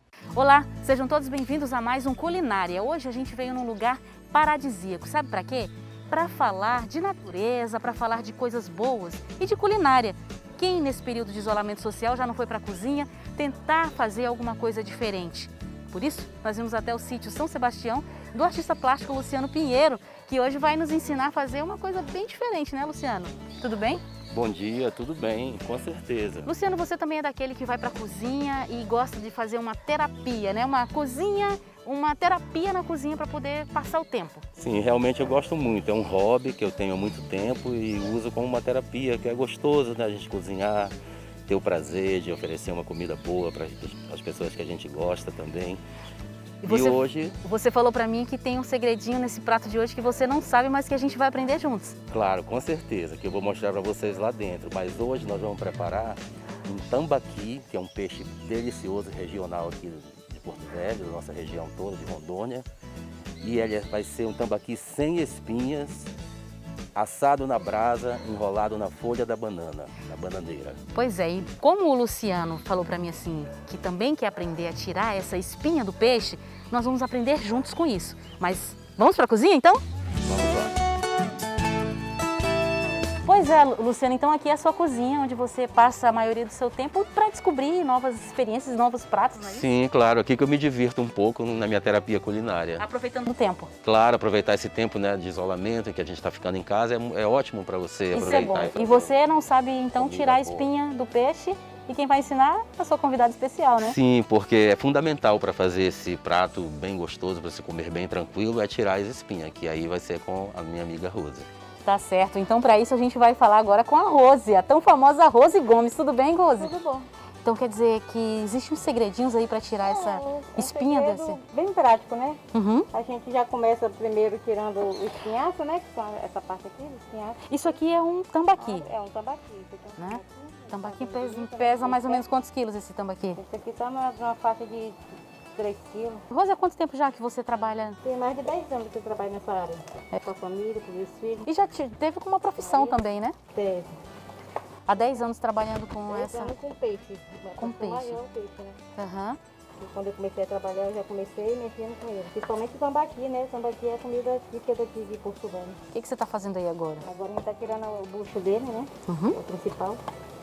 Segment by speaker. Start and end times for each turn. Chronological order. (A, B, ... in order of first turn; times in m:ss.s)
0:00.3-0:24.0 A
0:24.3-0:26.5 B
0:26.4-0:34.4 A
0:34.6-0:40.9 B
0:41.5-0:45.8 B
0:46.6-0:52.0 A
0:46.6-0:47.4 B
0:52.1-1:02.6 B
1:03.4-1:06.1 B
1:06.9-1:10.8 B
1:10.9-1:19.8 A
1:20.2-1:20.7 B
1:23.2-1:29.7 A
1:29.4-1:32.8 B
1:32.8-1:33.7 A
1:33.8-1:39.1 B
1:38.1-1:43.9 A
1:40.0-1:40.7 B
1:43.8-1:51.5 B
1:51.8-1:56.7 A
1:56.5-1:57.1 C
1:57.4-2:01.4 A
1:59.8-2:02.4 C
2:02.5-2:02.9 A
2:02.9-2:07.7 C
2:07.5-2:08.9 A
2:08.6-2:12.2 C
2:10.0-2:13.4 A
2:13.4-2:15.0 C
2:15.5-2:16.2 C
2:16.3-2:18.0 A
2:18.0-2:21.5 C
2:21.4-2:23.4 A
2:22.6-2:23.0 C
2:23.5-2:23.9 C
2:24.9-2:26.6 A
2:26.1-2:28.8 C
2:27.6-2:28.2 A
2:29.0-2:29.4 A
2:29.8-2:35.8 C
2:35.9-2:37.0 A
2:37.0-2:40.0 C
2:39.1-2:39.4 A